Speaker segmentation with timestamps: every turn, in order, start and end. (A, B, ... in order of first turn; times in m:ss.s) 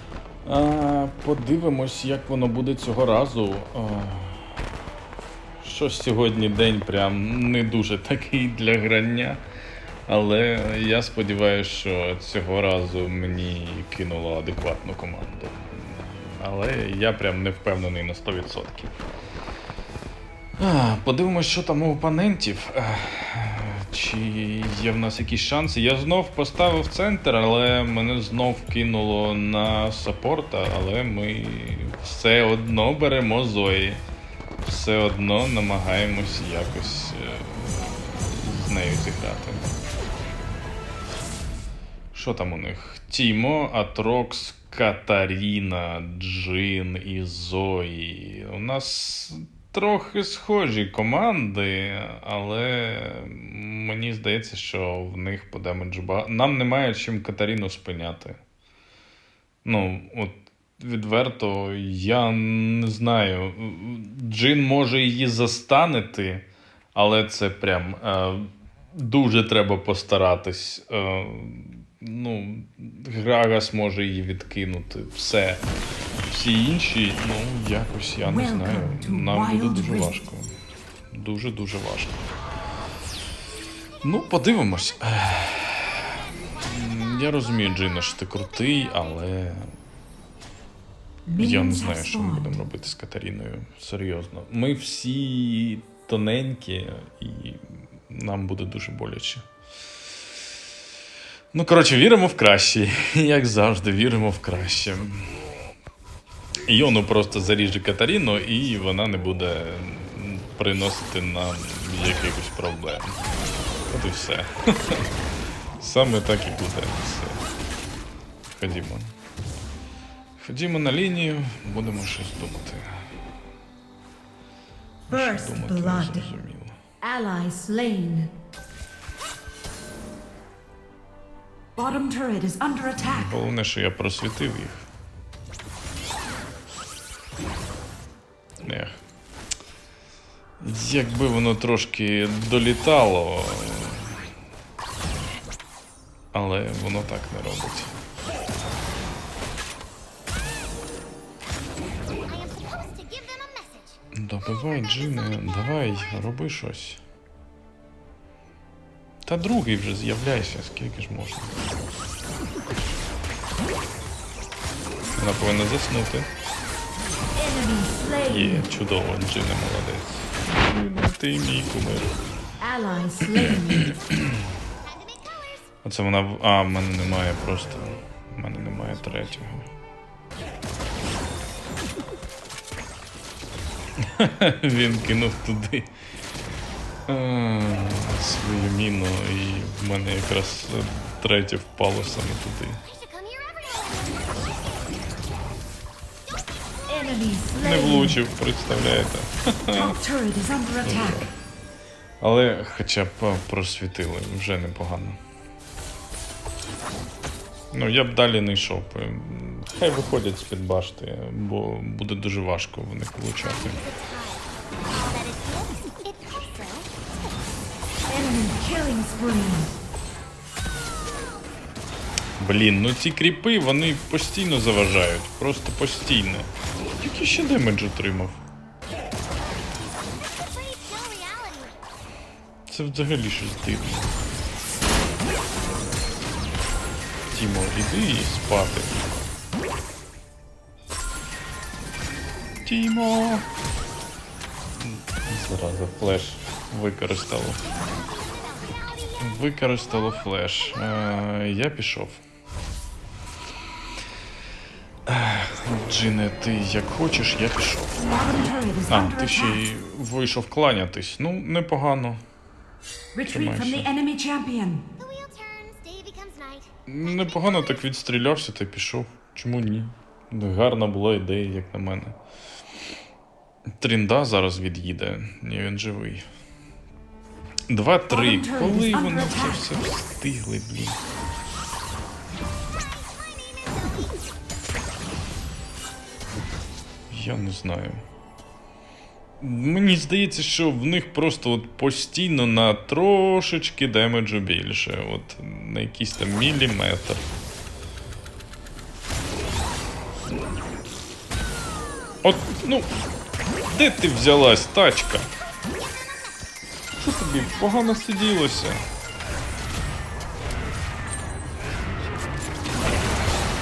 0:00.4-0:04.6 A
0:05.6-0:09.4 A
0:10.1-0:19.0 A
0:20.6-0:34.0 A
0:34.6-0:39.7 A
0:42.1-0:58.4 A
0:59.6-1:15.6 A
1:16.3-1:20.5 A
1:18.2-1:20.2 B
1:21.1-1:22.2 A
1:23.9-1:25.7 C
1:24.0-1:29.7 A
1:26.4-1:29.2 C
1:31.2-1:32.6 B
1:31.4-1:39.4 A
1:41.5-1:45.4 A
1:46.7-1:53.2 A
1:53.9-1:55.1 A
1:55.8-1:57.4 A
1:58.5-1:59.1 A
2:00.4-2:03.1 A
2:05.1-2:06.3 B
2:05.1-2:06.8 A
2:07.0-2:08.3 B
2:11.8-2:13.3 B
2:13.0-2:14.9 A
2:18.6-2:19.0 A
2:20.6-2:24.2 A
2:26.3-2:27.9 A
2:32.2-2:36.3 C
2:34.1-2:37.0 A
2:39.2-2:41.5 A
2:45.2-2:46.3 A
2:47.4-2:48.6 B
2:48.2-2:52.1 A
2:52.6-2:53.9 B
2:53.2-2:54.5 A
2:54.8-2:55.6 C
2:55.8-2:59.6 A
3:04.0-3:05.9 A
3:07.1-3:12.8 A
3:12.8-3:15.0 C
3:16.9-3:18.2 B
3:17.6-3:20.0 A
3:19.7-3:21.2 B
3:20.8-3:21.3 A
3:22.2-3:25.2 A
3:27.7-3:33.8 A
3:33.4-3:37.5 C
3:38.1-3:39.7 B
3:42.4-3:48.4 A
3:49.9-3:51.8 C
3:52.7-3:54.1 A
3:57.3-3:59.0 A
4:02.6-4:03.4 A
4:04.8-4:07.6 A
4:07.6-4:11.1 C
4:09.2-4:12.2 A
4:15.1-4:22.2 A
4:18.0-4:19.6 B
4:23.1-4:24.8 B
4:23.2-4:23.9 A
4:25.0-4:27.8 C
4:26.9-4:32.2 A
4:33.8-4:36.2 A
4:37.7-4:41.0 A
4:38.1-4:39.7 B
4:42.7-4:44.3 C
4:47.1-4:48.0 A
4:49.4-4:57.2 A
5:02.2-5:02.9 A
5:03.6-5:05.3 A
5:04.9-5:06.5 C
5:07.0-5:08.8 A
5:11.8-5:13.1 C